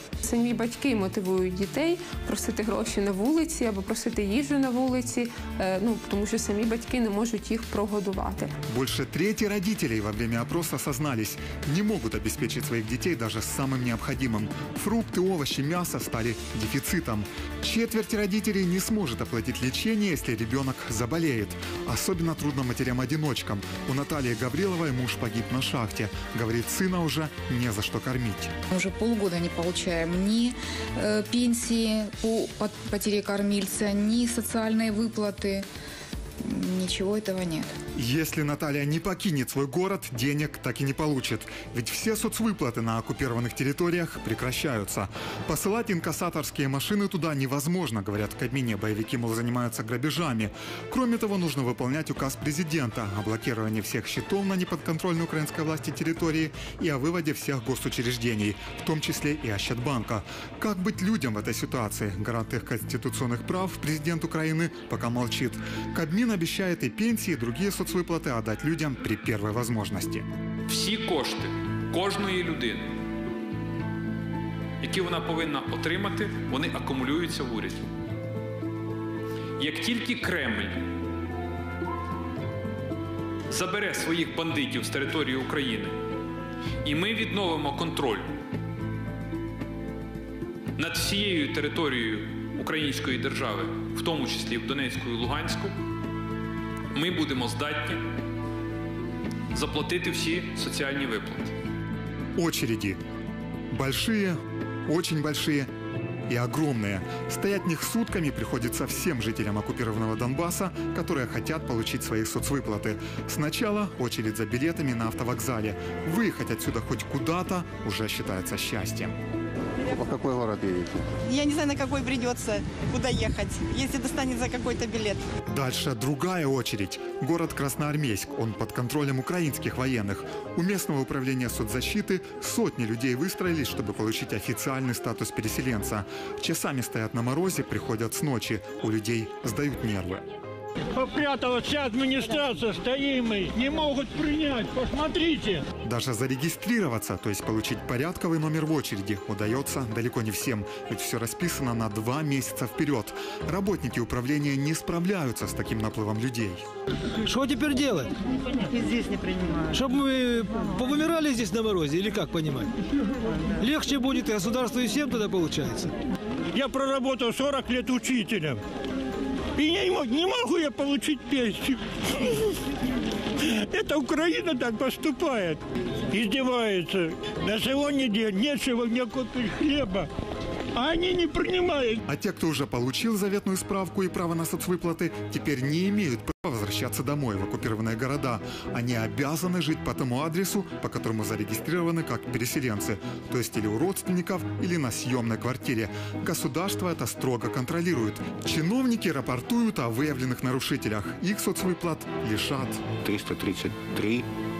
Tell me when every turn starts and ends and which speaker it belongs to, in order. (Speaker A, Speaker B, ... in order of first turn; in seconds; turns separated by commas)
Speaker A: 0.2-8.5, Speaker B: 8.7-28.5, Speaker C: 28.7-35.6, Speaker C: 36.4-37.7, Speaker B: 38.0-70.2, Speaker D: 70.7-72.9, Speaker D: 74.8-77.8, Speaker D: 79.6-80.8, Speaker D: 83.5-85.9, Speaker D: 86.8-88.2, Speaker D: 90.8-95.7, Speaker D: 96.9-98.0, Speaker D: 99.5-101.5, Speaker B: 102.3-103.0, Speaker B: 103.7-105.7, Speaker B: 106.3-119.2, Speaker E: 120.0-121.0, Speaker F: 121.3-125.2, Speaker B: 125.5-140.2, Speaker G: 141.0-145.6, Speaker B: 145.8-156.6, Speaker H: 157.2-158.1, Speaker H: 159.7-162.7, Speaker H: 163.6-165.9, Speaker G: 166.5-168.6, Speaker G: 169.6-171.7, Speaker G: 173.7-175.6, Speaker G: 176.1-180.0, Speaker G: 180.8-181.9, Speaker B: 182.1-202.8, Speaker E: 203.0-204.3